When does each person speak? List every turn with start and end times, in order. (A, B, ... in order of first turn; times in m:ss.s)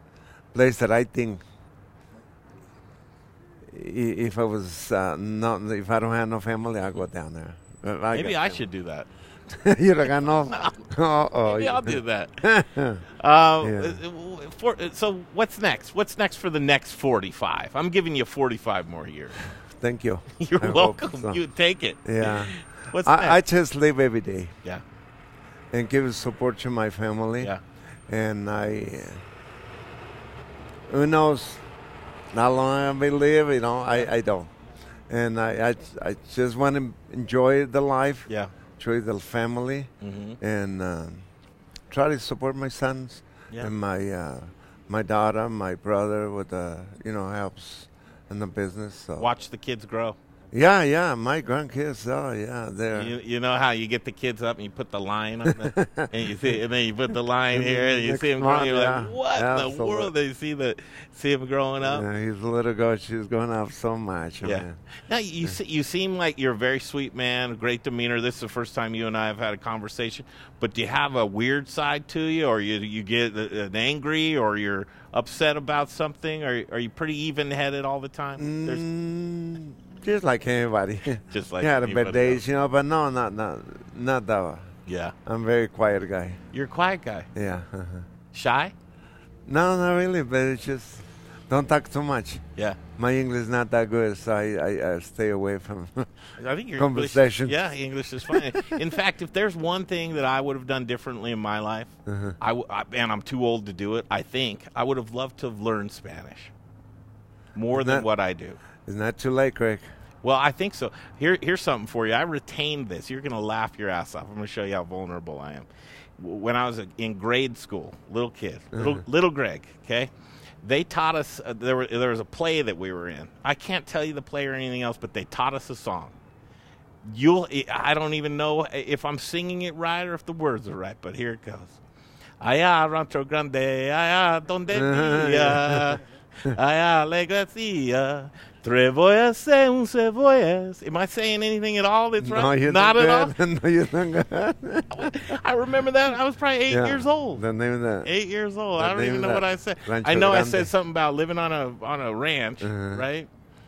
0:00.5-0:01.4 A
0:03.7-0:08.7 A
0:08.1-0:09.1 B
0:09.5-0:13.0 A
0:10.5-0:10.8 B
0:11.4-0:12.4 B
0:13.2-0:19.4 B
0:13.6-0:14.0 A
0:19.6-0:21.4 A
0:20.4-0:23.4 B
0:22.0-0:24.6 A
0:25.7-0:27.5 A
0:28.1-0:29.2 A
0:30.9-0:31.6 A
0:32.3-0:34.5 A
0:35.1-0:41.3 A
0:38.3-0:38.5 B
0:40.0-0:40.4 B
0:41.9-0:49.3 A
0:49.2-0:50.2 B
0:50.5-0:53.1 A
0:52.9-1:02.0 B
0:55.5-0:56.5 A
0:57.5-1:00.1 A
1:01.8-1:04.8 A
1:04.4-1:18.8 B
1:18.4-1:24.7 A
1:21.3-1:22.4 B
1:24.9-1:25.2 B
1:25.2-1:26.4 A
1:26.5-1:27.3 B
1:27.3-1:28.1 A
1:28.3-1:28.7 B
1:29.5-1:32.4 A
1:33.0-1:36.2 A
1:36.4-1:46.5 B
1:36.8-1:37.6 A
1:38.3-1:38.8 A
1:42.1-1:42.4 A
1:47.6-1:48.6 B
1:47.7-1:48.1 A
1:48.8-1:49.9 A
1:50.2-2:00.1 B
1:58.7-1:59.0 A
2:00.6-2:06.2 B
2:07.0-2:11.8 B
2:12.4-2:23.4 B
2:14.7-2:16.6 A
2:22.2-2:25.1 A
2:24.9-2:27.4 B
2:26.7-2:28.1 A
2:28.0-2:33.3 B
2:28.8-2:30.7 A
2:32.6-2:33.0 A